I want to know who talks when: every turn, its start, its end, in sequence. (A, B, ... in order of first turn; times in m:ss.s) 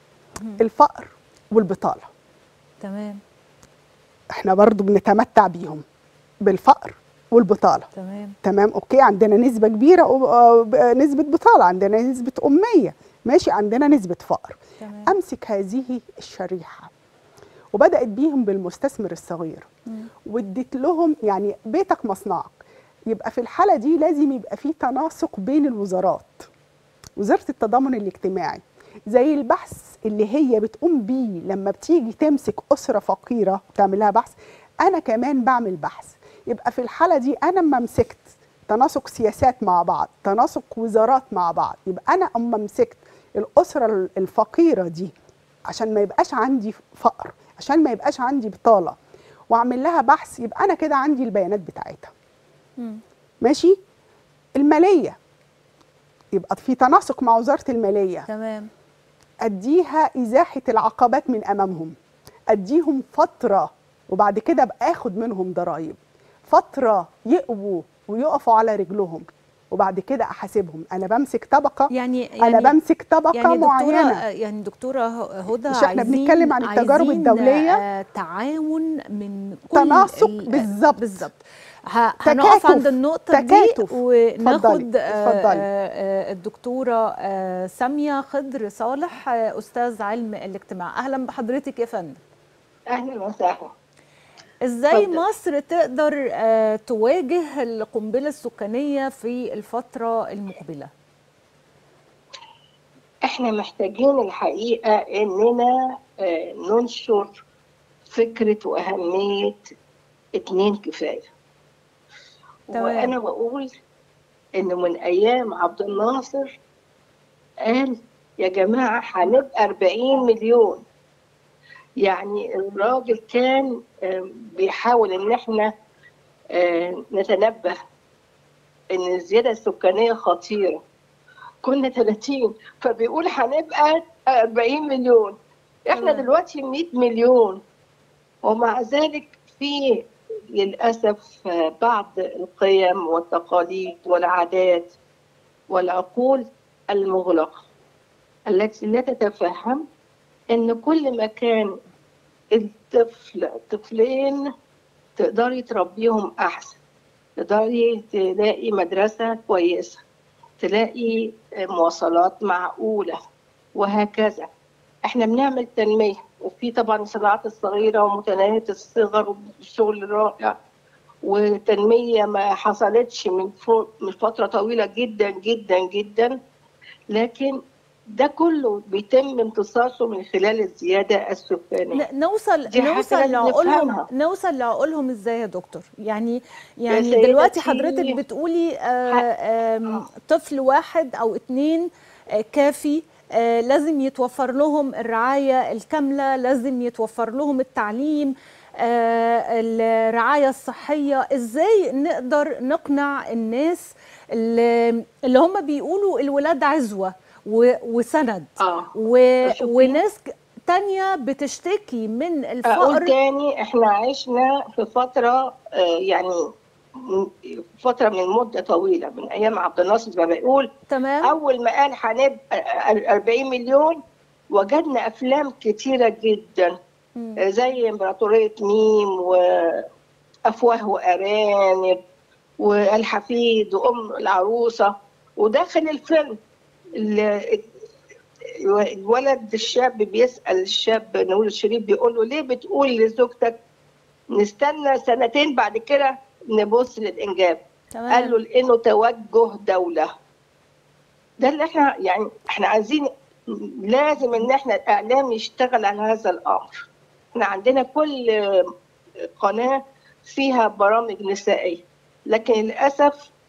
0:00.6-0:02.1 A
0:02.8-0:03.2 B
0:04.3-0:05.8 A
0:06.4-0:07.9 A
0:08.0-0:08.4 B
0:08.4-0:16.9 A
0:14.8-0:15.1 B
0:17.7-0:19.7 A
0:20.2-0:22.6 A
0:23.1-0:26.5 A
0:27.2-0:45.1 A
0:45.7-0:49.0 A
0:49.5-0:52.1 A
0:53.4-0:53.8 A
0:54.6-0:55.2 A
0:56.3-0:58.3 A
0:58.3-0:58.7 B
0:59.4-1:02.0 A
1:02.5-1:14.2 A
1:11.9-1:12.8 B
1:13.3-1:32.2 B
1:15.7-1:17.8 A
1:19.7-1:21.3 A
1:22.2-1:25.7 A
1:32.9-1:33.7 C
1:34.6-1:40.9 B
1:34.9-1:35.2 C
1:43.3-1:47.3 C
1:48.1-1:49.7 C
1:50.4-1:51.3 C
1:52.7-1:53.1 B
1:52.7-1:53.7 C
1:54.6-1:56.6 C
1:57.6-2:00.8 C
2:02.0-2:05.7 C
2:06.5-2:07.8 C
2:08.9-2:10.8 C
2:11.6-2:17.6 C
2:16.0-2:16.3 B
2:18.4-2:24.9 C
2:25.7-2:27.6 C
2:28.5-2:29.9 C
2:30.5-2:31.7 C
2:32.5-2:34.4 C
2:35.2-2:36.8 C
2:37.4-2:40.0 C
2:40.6-2:43.2 C
2:43.8-2:44.5 C
2:45.0-2:50.6 C
2:51.2-2:56.4 C
2:57.1-2:57.6 C
2:58.1-3:02.0 C
3:01.9-3:33.1 B
3:02.7-3:04.1 C
3:06.9-3:08.2 C
3:28.6-3:28.9 C
3:29.5-3:30.0 C
3:32.7-3:36.4 C
3:37.0-3:40.7 C
3:40.9-3:41.3 B
3:41.2-3:44.0 C
3:44.5-3:46.8 C
3:47.2-3:47.4 B
3:47.4-3:49.9 C
3:50.5-3:52.0 C
3:52.6-3:56.4 C
3:57.0-3:57.7 C
3:58.6-4:03.6 C
4:04.4-4:10.1 C
4:08.0-4:08.4 B
4:11.4-4:16.8 C
4:17.4-4:23.3 C